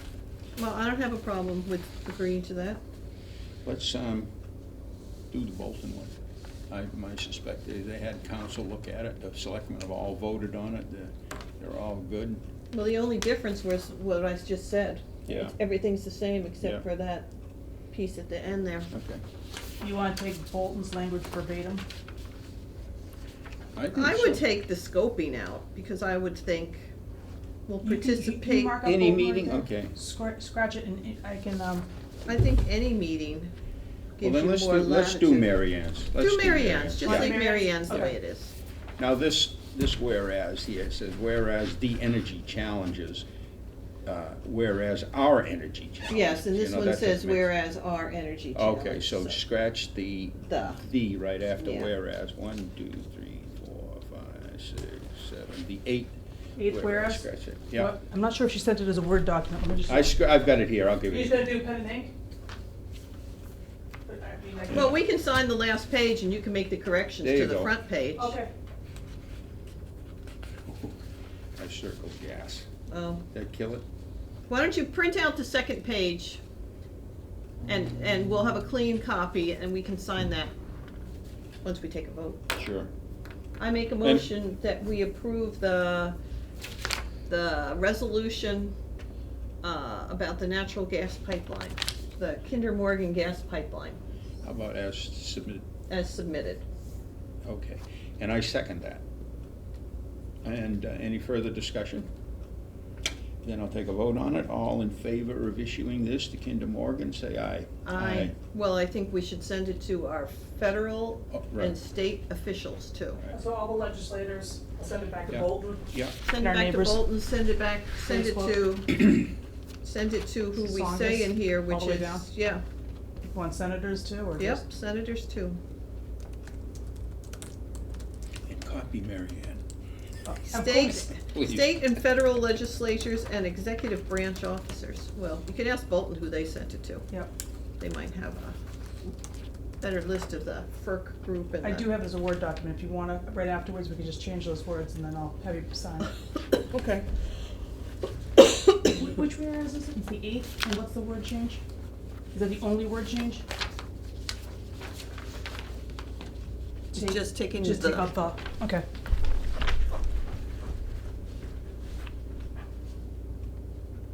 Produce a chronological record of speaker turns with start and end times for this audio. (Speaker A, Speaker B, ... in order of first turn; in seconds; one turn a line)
Speaker A: 0.6-2.8
Speaker B: 3.6-4.3
Speaker B: 5.3-6.2
Speaker B: 6.7-12.4
Speaker A: 12.7-17.3
Speaker B: 15.3-15.6
Speaker A: 17.9-18.9
Speaker B: 18.9-19.2
Speaker C: 19.8-21.9
Speaker B: 23.8-24.4
Speaker A: 23.9-26.9
Speaker A: 27.7-28.8
Speaker C: 27.8-31.9
Speaker B: 28.8-29.9
Speaker A: 32.3-33.5
Speaker A: 34.2-35.6
Speaker B: 34.2-37.4
Speaker A: 36.1-38.5
Speaker C: 37.0-38.1
Speaker B: 39.0-43.3
Speaker B: 44.0-47.5
Speaker A: 46.1-49.4
Speaker B: 48.5-58.0
Speaker A: 50.5-50.8
Speaker A: 51.6-51.9
Speaker C: 56.6-60.1
Speaker B: 59.9-61.5
Speaker C: 61.1-62.1
Speaker C: 64.1-64.9
Speaker A: 64.7-68.4
Speaker B: 67.2-67.7
Speaker C: 68.2-68.5
Speaker B: 70.7-71.0
Speaker B: 71.6-72.7
Speaker A: 72.9-73.2
Speaker B: 73.3-73.8
Speaker A: 74.5-76.4
Speaker A: 77.6-80.5
Speaker A: 81.6-82.4
Speaker B: 82.5-82.9
Speaker A: 83.6-86.2
Speaker A: 87.3-88.8
Speaker A: 89.6-94.0
Speaker B: 94.4-95.7
Speaker A: 95.9-96.6
Speaker B: 97.4-99.0
Speaker B: 100.4-102.1
Speaker B: 103.4-108.3
Speaker A: 107.8-113.2
Speaker B: 111.3-111.7
Speaker C: 113.3-117.0
Speaker B: 115.3-116.2
Speaker A: 116.2-119.2
Speaker C: 118.1-118.8
Speaker A: 119.8-122.6
Speaker C: 120.6-122.3
Speaker C: 123.3-124.6
Speaker A: 124.4-125.6
Speaker B: 128.5-129.6
Speaker C: 130.2-131.1
Speaker A: 130.5-137.1
Speaker B: 131.3-131.8
Speaker A: 137.8-138.6
Speaker A: 139.8-141.9
Speaker C: 141.6-146.1
Speaker A: 146.7-147.1
Speaker C: 148.9-151.6
Speaker C: 152.3-153.4
Speaker C: 156.9-158.8
Speaker A: 156.9-158.1